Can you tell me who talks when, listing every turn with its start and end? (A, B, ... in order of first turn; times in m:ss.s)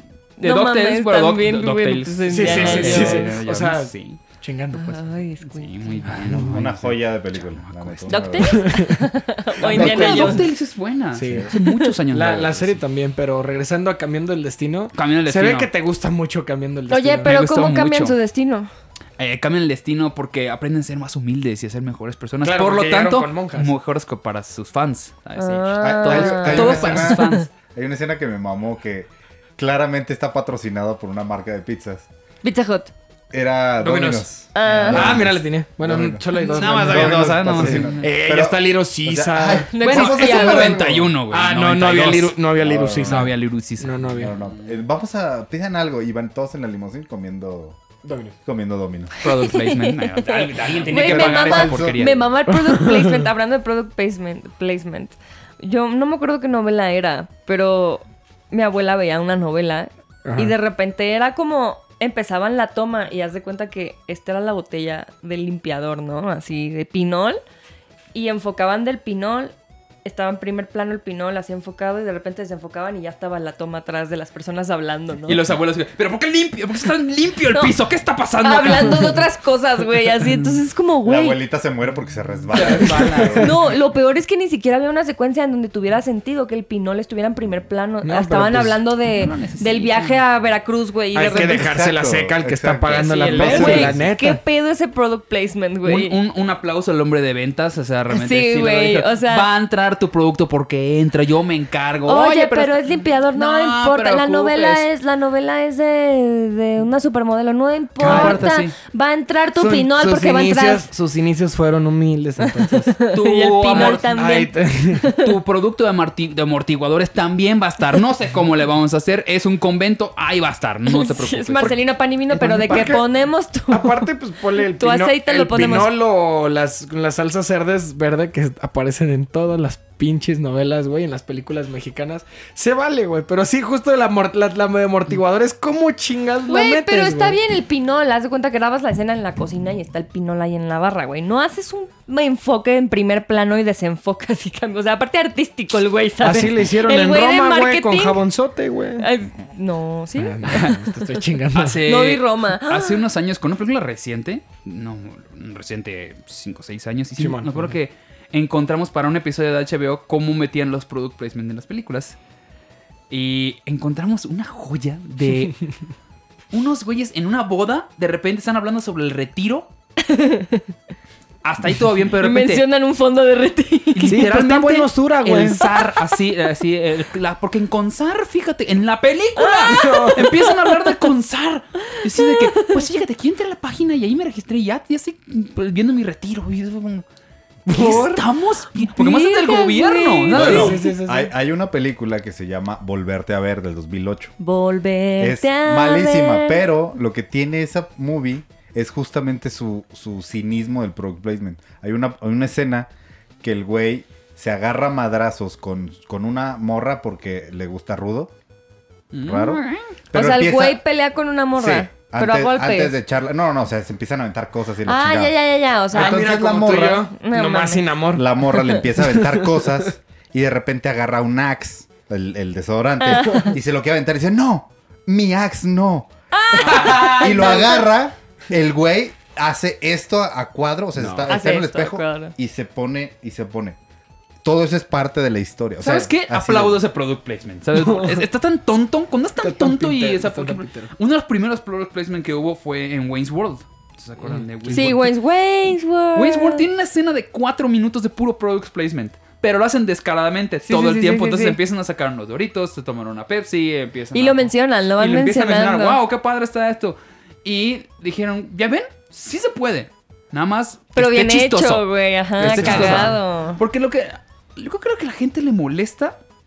0:00.4-0:03.3 A
0:00.4-0:04.2 B
0:02.3-0:05.2 C
0:04.7-0:06.1 A
0:05.4-0:08.4 B
0:06.3-0:08.8 D
0:08.1-0:10.4 A
0:08.5-0:09.0 C
0:09.6-0:10.5 C
0:09.7-0:12.7 B
0:09.7-0:10.2 D
0:11.1-0:11.5 C
0:11.2-0:11.5 D
0:11.5-0:11.9 A
0:12.1-0:17.3 C
0:14.9-0:15.7 B
0:16.9-0:18.7 A
0:17.2-0:18.1 B
0:19.2-0:27.5 B
0:22.4-0:23.7 C
0:25.4-0:27.5 A
0:25.8-0:29.1 D
0:29.6-0:32.1 D
0:32.4-0:32.9 A
0:33.3-0:41.1 D
0:33.8-0:34.3 C
0:34.5-0:35.1 A
0:34.9-0:44.3 C
0:36.3-0:38.2 B
0:39.7-0:40.8 A
0:39.8-0:42.4 B
0:42.6-0:43.3 D
0:43.0-0:44.5 B
0:44.1-0:47.8 D
0:48.0-0:48.3 C
0:48.4-0:49.1 D
0:49.2-0:52.2 B
0:49.2-1:07.4 A
0:50.9-0:52.0 D
0:52.5-0:53.2 C
1:00.2-1:00.5 C
1:08.1-1:15.4 A
1:15.3-1:19.2 B
1:18.4-1:21.4 A
1:21.0-1:23.6 D
1:22.5-1:23.5 B
1:22.5-1:23.5 C
1:23.4-1:31.7 A
1:28.0-1:28.8 C
1:29.1-1:30.2 B
1:31.1-1:34.4 C
1:31.4-1:34.1 D
1:32.9-1:34.0 B
1:33.4-1:36.2 A
1:35.8-1:44.8 B
1:38.1-1:39.5 A
1:42.0-1:50.9 A
1:48.0-1:48.7 B
1:48.0-1:48.4 C
1:49.5-1:53.0 C
1:52.9-1:55.3 A
1:53.1-1:54.2 B
1:53.7-1:55.1 C
1:55.1-2:01.8 B
2:00.9-2:04.0 A
2:02.3-2:03.0 C
2:03.7-2:17.4 C
2:04.8-2:05.9 A
2:16.5-2:28.2 A
2:26.2-2:29.1 C
2:29.0-2:31.0 A
2:30.2-2:31.8 C
2:30.5-2:30.8 B
2:31.5-2:42.2 B
2:31.8-2:33.1 A
2:37.2-2:37.8 C
2:43.1-2:45.6 B
2:46.5-2:49.7 B
2:50.0-2:50.7 A
2:51.4-2:52.6 B
2:52.2-2:54.2 A
2:53.9-3:07.0 B
2:54.1-2:55.7 C
2:55.6-2:56.1 A
2:59.4-3:01.0 A
2:59.7-3:00.2 C
3:01.9-3:02.8 A
3:07.6-3:08.2 C
3:07.7-3:10.8 B
3:08.8-3:10.8 A
3:10.3-3:11.3 C
3:10.3-3:14.3 D
3:14.4-3:16.6 A
3:15.2-3:22.9 D
3:23.4-3:28.3 D
3:29.1-3:29.9 B
3:29.2-3:30.8 D
3:30.1-3:33.0 A
3:31.5-3:35.3 D
3:34.8-3:37.9 A
3:35.9-3:37.1 D
3:35.9-3:39.9 C
3:38.1-3:53.8 D
3:43.0-3:43.5 A
3:43.2-3:43.5 C
3:46.3-3:47.9 A
3:46.6-3:47.6 B
3:51.0-3:51.3 C
3:51.3-3:52.3 A
3:54.4-3:56.8 D
3:55.8-4:05.1 B
3:57.8-3:58.2 C
3:59.4-4:00.9 C
4:04.2-4:04.9 C
4:04.7-4:06.6 A
4:06.1-4:26.2 B
4:10.6-4:11.6 A
4:14.1-4:16.0 A
4:20.9-4:23.6 A
4:22.4-4:23.1 C
4:22.5-4:23.1 D